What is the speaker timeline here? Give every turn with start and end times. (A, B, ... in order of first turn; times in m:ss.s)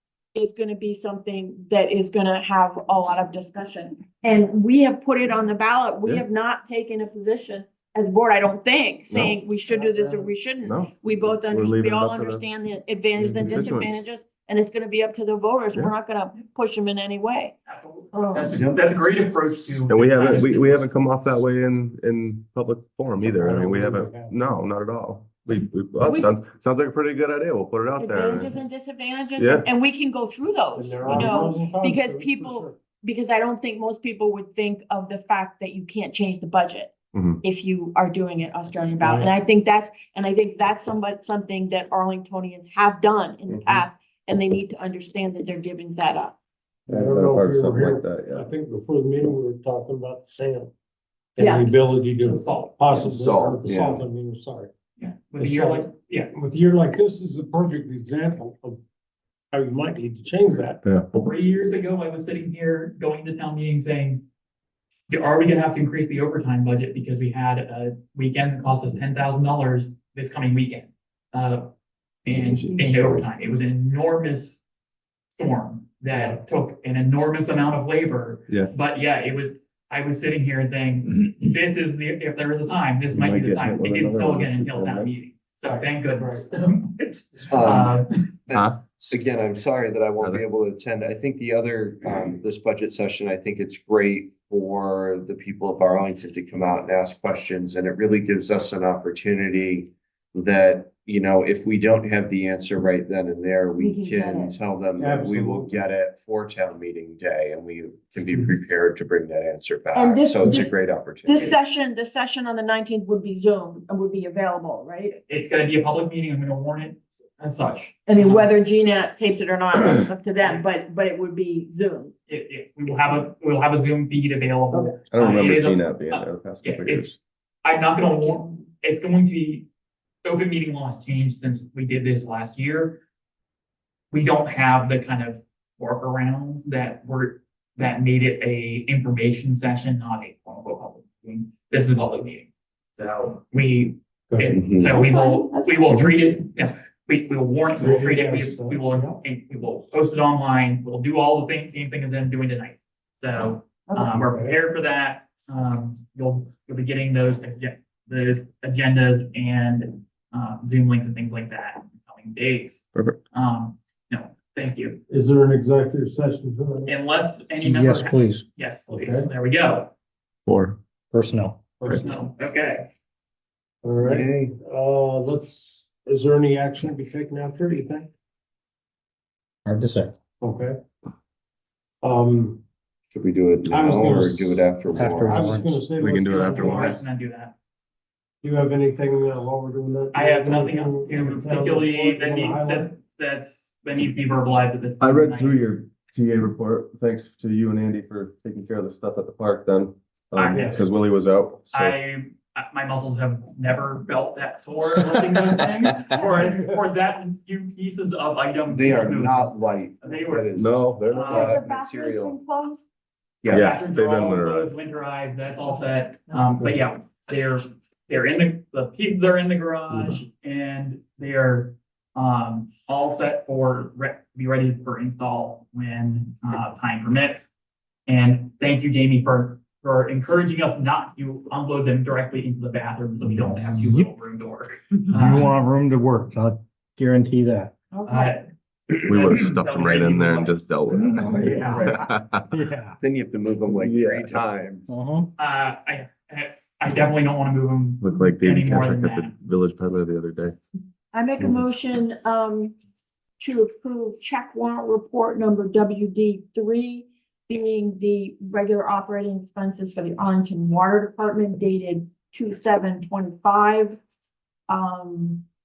0:00.4-0:17.6 A
0:09.1-0:09.4 B
0:09.6-0:10.3 C
0:10.6-0:12.4 B
0:13.2-0:13.6 C
0:13.4-0:14.0 B
0:17.7-0:20.9 D
0:18.1-0:18.5 A
0:19.9-0:28.6 B
0:23.2-0:24.4 C
0:26.0-0:26.3 A
0:28.0-0:46.3 A
0:29.4-0:29.7 B
0:30.8-0:32.8 C
0:37.1-0:37.4 B
0:39.0-0:39.3 C
0:43.5-0:43.8 B
0:46.9-0:48.5 B
0:46.9-0:50.7 C
0:51.4-0:54.7 C
0:51.4-0:51.7 A
0:52.2-0:52.8 D
0:52.9-0:54.1 E
0:55.0-0:56.3 D
0:55.4-0:58.8 C
0:59.5-1:00.8 C
1:00.8-1:01.1 B
1:01.1-1:04.2 D
1:05.1-1:11.7 D
1:12.2-1:14.6 D
1:12.3-1:13.2 E
1:15.3-1:28.3 D
1:16.1-1:16.4 C
1:18.5-1:18.7 B
1:23.1-1:25.1 B
1:25.7-1:26.7 C
1:27.5-1:28.0 E
1:28.5-1:51.5 E
1:28.5-1:29.0 B
1:43.8-1:44.6 A
1:45.0-1:45.7 C
1:49.9-1:55.1 A
1:55.1-1:58.5 D
1:58.1-2:02.1 A
2:02.3-2:07.1 D
2:05.1-2:07.2 B
2:07.6-2:09.7 D
2:08.0-2:08.6 A
2:10.2-2:13.0 D
2:14.1-2:45.0 D
2:24.3-2:24.6 C
2:24.5-2:25.0 E
2:24.9-2:26.3 A
2:27.8-2:29.2 C
2:34.1-2:34.6 C
2:45.1-2:46.9 C
2:46.9-2:49.9 D
2:47.6-2:48.4 F
2:48.9-2:49.3 C
2:50.5-2:50.8 B
2:51.1-2:51.6 F
2:51.8-2:52.1 C
2:51.9-2:52.9 D
2:53.8-2:58.1 C
2:54.0-2:54.5 E
2:59.7-3:00.1 F
3:00.4-3:00.8 C
3:02.0-3:02.6 C
3:03.1-3:05.5 E
3:03.7-3:04.6 C
3:04.9-3:05.9 F
3:05.2-3:07.0 C
3:06.0-3:07.0 B
3:06.3-3:07.6 D
3:08.4-3:12.9 C
3:10.1-3:15.6 D
3:15.0-3:21.9 B
3:20.4-3:20.9 D
3:21.7-3:30.5 D
3:28.7-3:32.4 E
3:30.6-3:31.4 B
3:31.1-3:31.6 D
3:31.1-3:32.8 A
3:33.4-3:33.8 E
3:33.4-3:34.8 B
3:33.5-3:47.5 D
3:48.1-3:55.6 D
3:55.1-3:55.6 C
3:55.5-3:57.7 F
3:56.2-3:56.6 C
3:57.9-3:58.4 A
3:58.1-4:02.1 D
3:59.1-4:02.5 B
4:01.4-4:01.8 C
4:01.7-4:02.0 E
4:02.5-4:03.0 C
4:03.0-4:04.9 E
4:03.7-4:04.5 B
4:04.9-4:05.3 F
4:05.4-4:09.3 D
4:08.0-4:10.6 B
4:11.1-4:12.8 A
4:11.4-4:11.7 B
4:13.4-4:24.0 A
4:24.7-4:25.4 A